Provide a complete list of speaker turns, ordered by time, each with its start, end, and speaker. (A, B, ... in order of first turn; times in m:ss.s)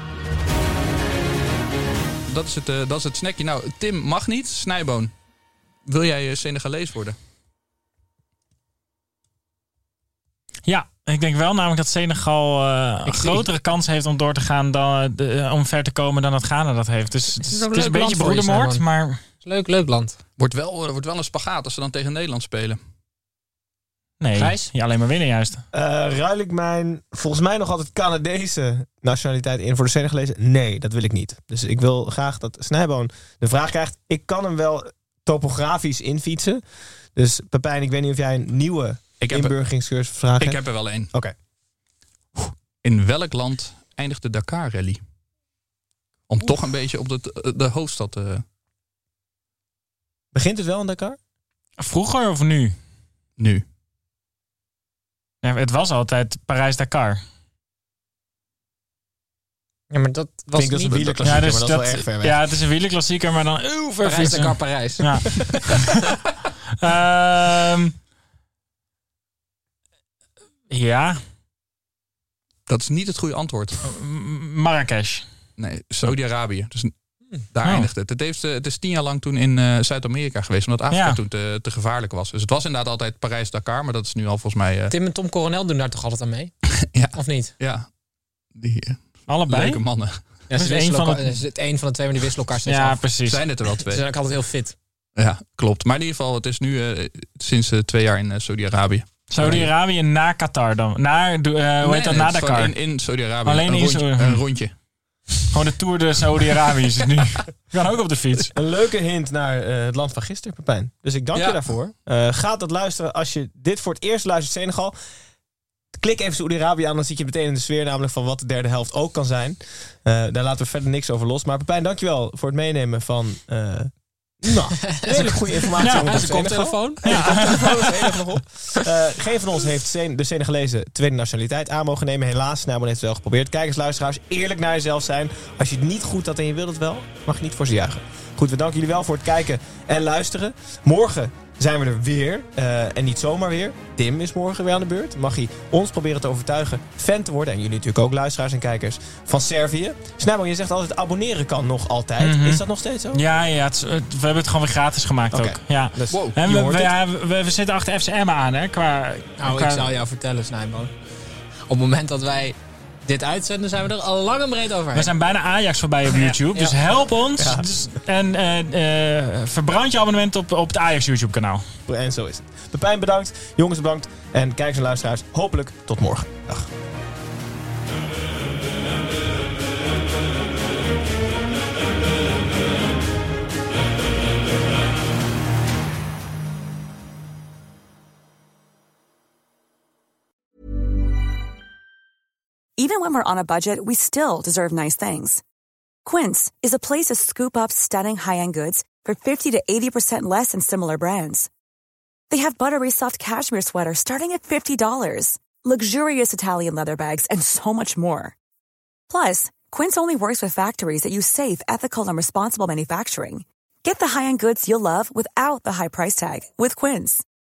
0:02.3-0:05.1 A
0:05.9-0:07.2 A
0:10.6-0:19.2 B
0:13.1-0:13.4 A
0:17.4-0:18.8 C
0:19.4-0:20.2 C
0:20.4-0:22.8 A
0:24.2-0:25.6 B
0:24.3-0:24.7 C
0:25.7-0:36.6 D
0:37.2-0:41.3 D
0:39.2-0:39.6 A
0:40.4-0:41.1 A
0:42.4-0:45.0 A
0:46.3-0:48.4 A
0:50.3-0:51.2 D
0:51.8-0:52.8 B
0:53.4-0:53.6 A
0:55.4-0:57.2 B
0:59.9-1:01.4 C
1:00.6-1:02.4 D
1:01.2-1:06.0 B
1:04.0-1:05.8 C
1:06.8-1:07.9 B
1:10.7-1:11.2 B
1:12.7-1:13.8 A
1:13.8-1:15.3 B
1:15.6-1:16.9 A
1:17.5-1:24.9 A
1:17.6-1:17.9 B
1:20.9-1:21.2 B
1:24.9-1:26.5 C
1:26.9-1:27.9 A
1:27.1-1:27.5 C
1:28.6-1:30.2 A
1:29.3-1:29.8 B
1:30.5-1:33.0 C
1:30.5-1:31.4 B
1:32.7-1:33.5 B
1:33.3-1:34.0 A
1:33.8-1:34.8 C
1:35.2-1:39.7 A
1:39.3-1:42.8 B
1:41.8-1:44.7 A
1:43.4-1:44.4 B
1:45.5-1:48.5 B
1:48.6-1:55.0 D
1:51.3-1:51.6 A
1:56.0-2:03.9 D
2:04.4-2:33.2 D
2:04.9-2:08.2 C
2:32.2-2:32.6 B
2:33.2-2:39.9 B
2:35.3-2:36.3 D
2:36.1-2:36.9 A
2:39.4-2:40.9 C
2:41.7-2:45.1 C
2:45.0-2:51.7 B
2:46.1-2:46.8 C
2:47.4-2:47.7 D
2:51.9-2:56.7 D
3:12.8-3:15.4 E
3:16.0-3:21.5 E
3:22.3-3:28.3 E
3:29.1-3:37.2 E